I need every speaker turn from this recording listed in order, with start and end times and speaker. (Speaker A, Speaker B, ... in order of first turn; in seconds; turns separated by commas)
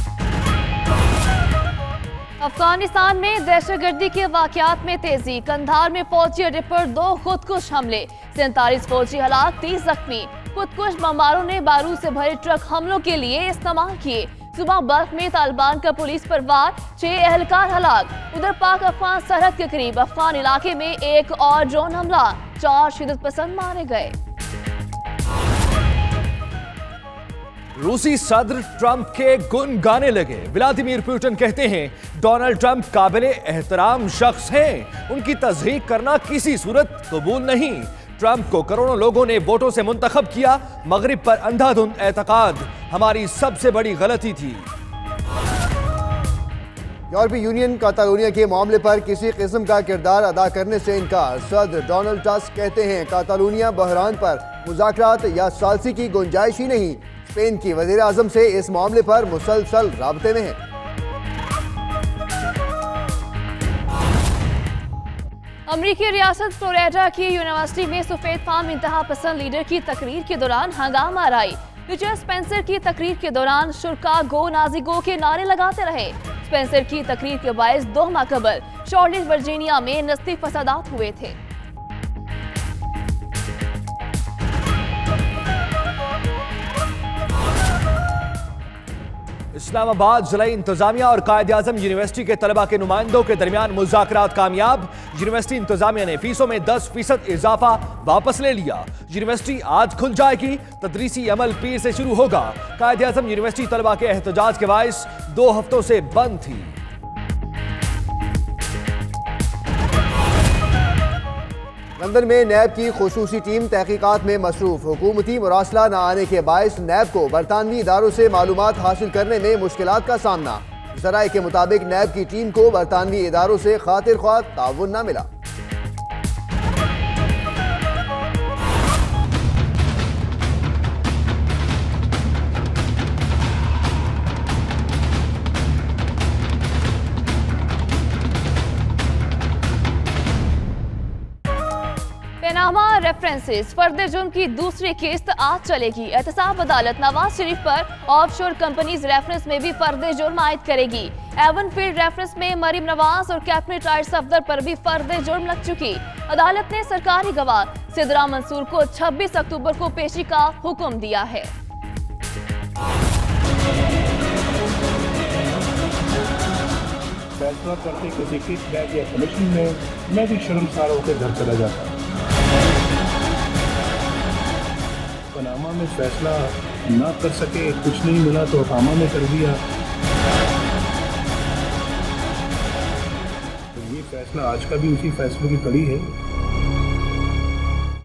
Speaker A: 2.4-24.1, Speaker B: 27.8-44.7, Speaker C: 47.1-60.6, Speaker A: 65.7-81.4, Speaker B: 89.5-106.8, Speaker C: 112.0-125.3, Speaker A: 142.4-161.5, Speaker D: 167.4-172.0, Speaker D: 175.3-179.6, Speaker D: 183.8-186.1